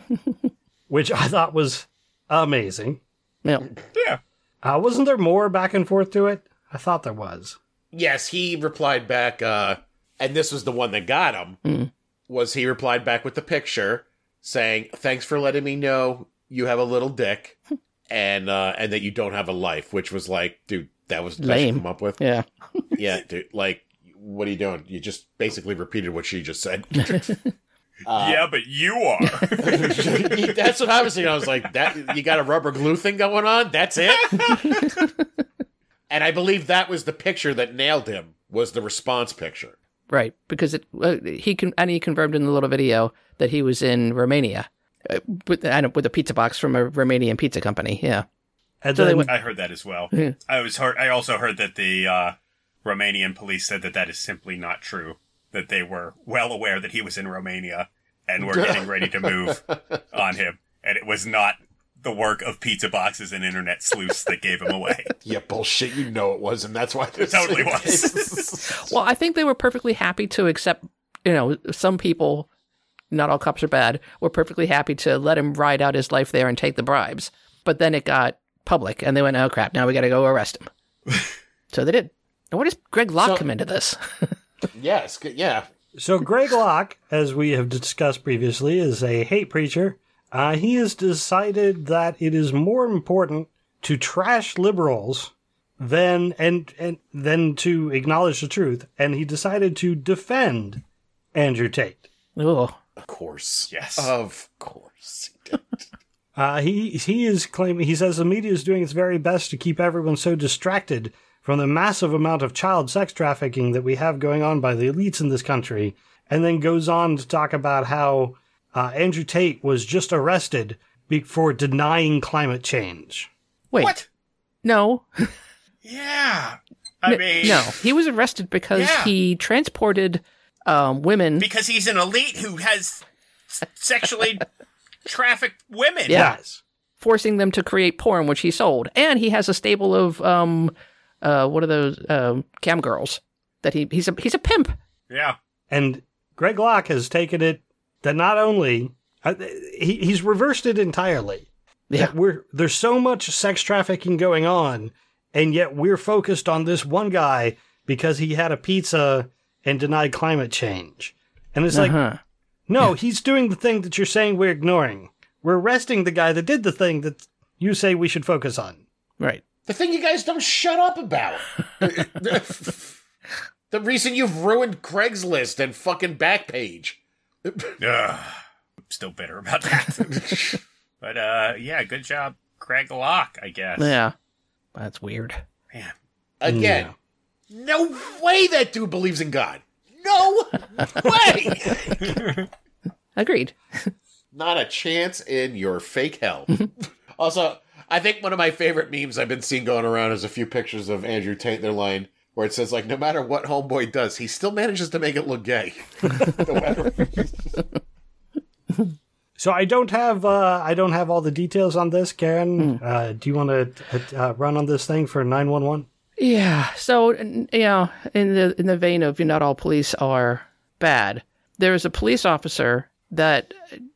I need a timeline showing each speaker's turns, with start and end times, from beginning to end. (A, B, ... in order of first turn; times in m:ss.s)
0:00.9-0:03.0 A
0:03.9-0:04.2 B
0:04.6-0:07.6 A
0:07.9-0:11.6 C
0:11.6-0:11.9 D
0:12.3-0:17.6 C
0:18.1-0:22.2 C
0:21.4-0:22.9 D
0:23.0-0:27.4 C
0:28.1-0:28.4 C
0:28.1-0:30.6 B
0:29.6-0:34.9 C
0:34.2-0:34.9 B
0:36.1-0:39.7 C
0:40.1-0:48.2 D
0:48.8-0:49.3 A
0:48.9-0:49.3 D
0:49.3-1:05.1 B
0:58.4-1:00.0 C
1:05.2-1:08.8 C
1:07.2-1:08.6 B
1:08.7-1:12.5 D
1:13.1-1:20.7 D
1:21.7-1:24.4 D
1:23.2-1:23.4 C
1:24.7-1:25.7 C
1:26.0-1:40.8 A
1:41.3-1:42.0 A
1:42.4-1:42.7 D
1:43.0-1:45.8 C
1:43.7-1:44.1 B
1:46.4-2:03.3 A
2:03.8-2:04.0 B
2:04.6-2:05.3 D
2:05.8-2:07.8 B
2:07.1-2:11.5 D
2:08.7-2:09.1 B
2:11.4-2:14.4 B
2:15.0-2:16.3 B
2:16.1-2:16.3 D
2:16.1-2:16.6 A
2:17.0-2:24.8 D
2:25.1-2:25.4 B
2:25.7-2:42.0 A
2:41.7-2:42.2 D
2:42.7-2:48.8 A
2:49.6-2:52.9 C
2:53.7-2:57.8 C
2:57.8-2:58.4 B
2:58.9-3:00.3 B
3:00.1-3:00.5 C
3:01.0-3:03.9 B
3:03.8-3:04.1 D
3:04.7-3:05.4 D
3:06.4-3:06.9 C
3:06.4-3:06.9 A
3:07.5-3:12.2 C
3:12.0-3:12.4 B
3:13.2-3:13.9 D
3:14.3-3:27.3 C
3:29.4-3:35.9 A
3:36.2-3:43.8 D